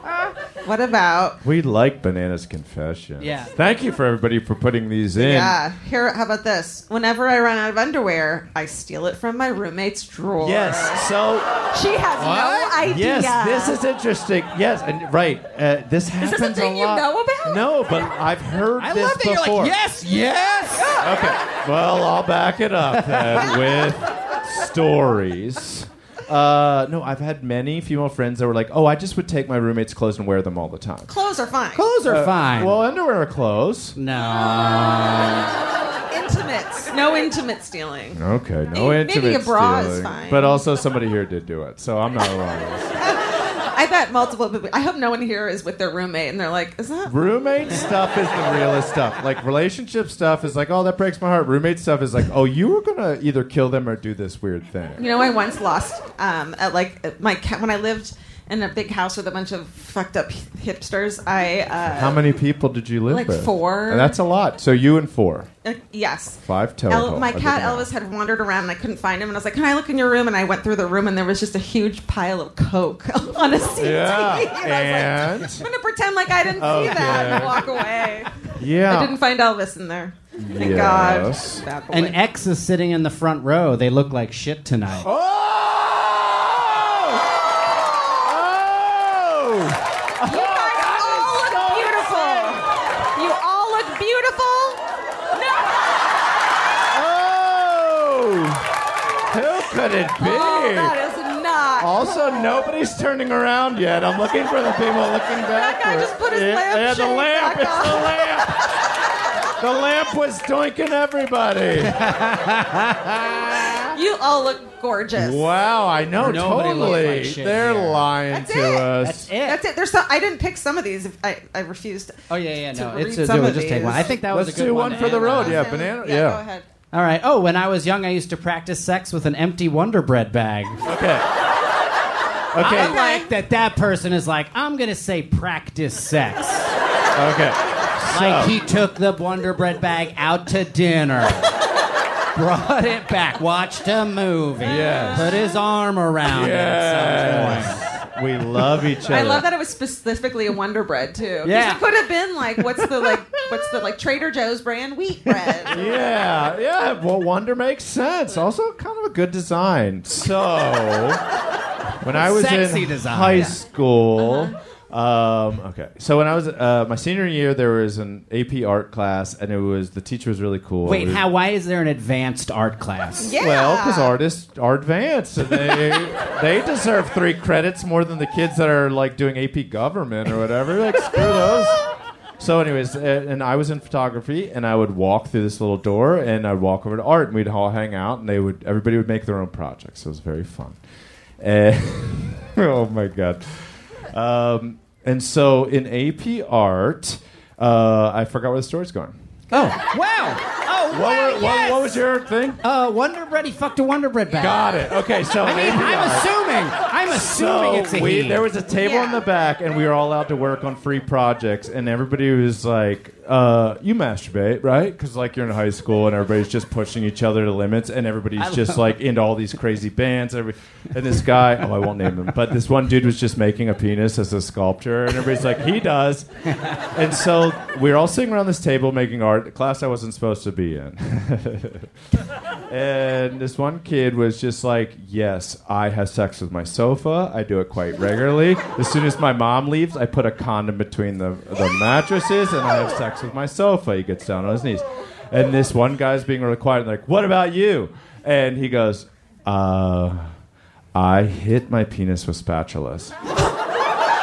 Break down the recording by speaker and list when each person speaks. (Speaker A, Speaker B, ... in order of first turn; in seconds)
Speaker A: 0.6-1.4, 5.2-11.1, 11.7-13.8, 16.2-17.6, 31.1-31.8, 34.4-38.2, 38.7-40.6, 43.0-47.1, 55.0-62.2, 63.1-64.2, 65.6-82.2, 90.2-94.8, 95.3-95.8, 100.2-102.6, 105.5-108.7, 113.9-115.5, 118.3-122.2, 122.7-124.1, 125.0-126.7, 132.6-133.3, 144.7-145.4, 149.0-155.9, 164.2-164.5, 173.2-174.1, 208.8-209.2
Speaker B: 1.4-5.6, 10.4-11.5, 12.2-19.7, 21.0-31.1, 32.0-34.0, 38.1-43.0, 47.0-55.0, 61.9-65.5, 66.4-67.9, 73.7-75.7, 76.6-77.6, 78.6-79.2, 80.4-81.6, 85.0-92.6, 96.9-98.7, 99.3-100.9, 101.8-108.6, 109.6-112.0, 113.2-113.8, 115.1-119.3, 124.3-126.4, 130.8-131.2, 132.5-133.0, 137.1-138.6, 144.6-145.3, 146.3-149.4, 155.7-161.2, 162.0-171.2, 173.4-181.8, 182.4-190.8, 191.4-199.1, 200.9-202.6, 204.4-206.3, 207.1-226.2, 226.8-231.9, 232.7-250.2, 250.9-253.1
Speaker C: 3.2-3.5, 18.8-21.0, 22.9-23.4, 31.7-32.7, 34.0-35.6, 76.7-77.7, 81.9-85.1, 111.8-113.9, 116.2-118.1, 119.0-119.6, 122.3-125.7, 126.9-130.8, 132.6-136.7, 138.1-141.5, 142.3-147.8, 151.4-151.8, 162.1-163.6, 170.8-173.4, 199.5-201.8, 202.6-204.8, 205.4-208.4, 218.4-218.8